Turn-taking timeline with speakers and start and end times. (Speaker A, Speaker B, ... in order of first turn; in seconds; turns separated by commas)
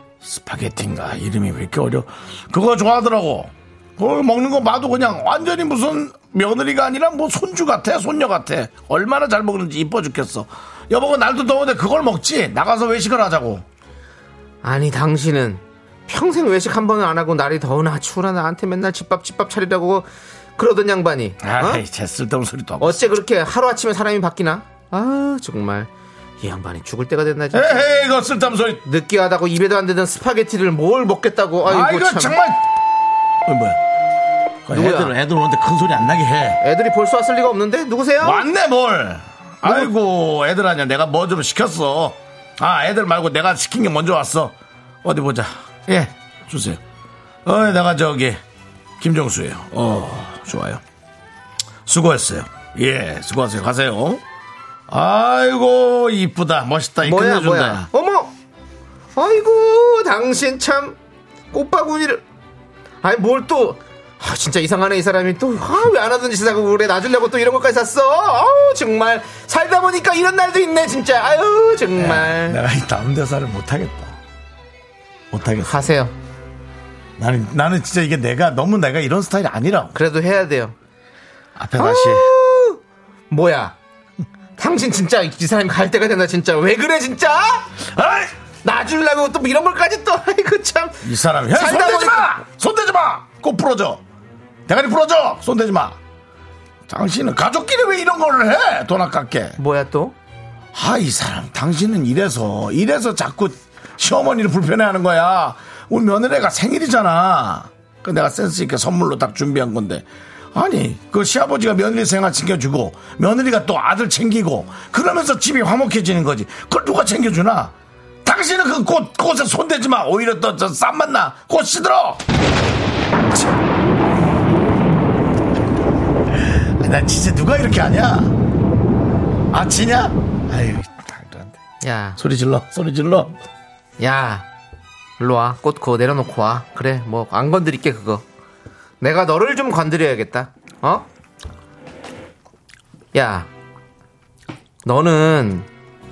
Speaker A: 0.2-13.6, Speaker B: 14.6-21.8, Speaker A: 21.4-23.1, Speaker B: 22.8-25.9, Speaker B: 26.4-27.9, Speaker A: 27.5-28.8, Speaker B: 28.8-32.4, Speaker A: 31.6-32.6, Speaker A: 33.4-33.8, Speaker A: 34.6-36.6, Speaker B: 34.7-35.1, Speaker B: 36.6-38.5, Speaker A: 38.2-46.8, Speaker B: 39.6-39.9, Speaker A: 47.4-48.4, Speaker A: 49.0-50.8, Speaker A: 51.9-54.2, Speaker A: 54.9-57.9, Speaker B: 57.0-58.3, Speaker B: 59.1-61.0, Speaker B: 61.5-62.2, Speaker B: 63.0-72.6, Speaker A: 71.9-74.2, Speaker A: 75.3-75.9, Speaker B: 75.6-76.1, Speaker A: 77.2-80.0, Speaker B: 79.9-80.7, Speaker A: 81.5-82.3, Speaker B: 81.8-83.8, Speaker B: 84.6-92.4, Speaker A: 91.0-94.0, Speaker A: 94.7-96.0, Speaker A: 96.9-99.6, Speaker B: 99.6-100.1, Speaker A: 100.7-122.2, Speaker A: 126.3-128.3, Speaker A: 129.5-131.6, Speaker B: 131.8-132.2, Speaker A: 132.2-133.3, Speaker B: 134.0-134.4, Speaker B: 135.2-138.2, Speaker B: 139.0-141.1, Speaker B: 143.1-143.5, Speaker B: 144.8-145.7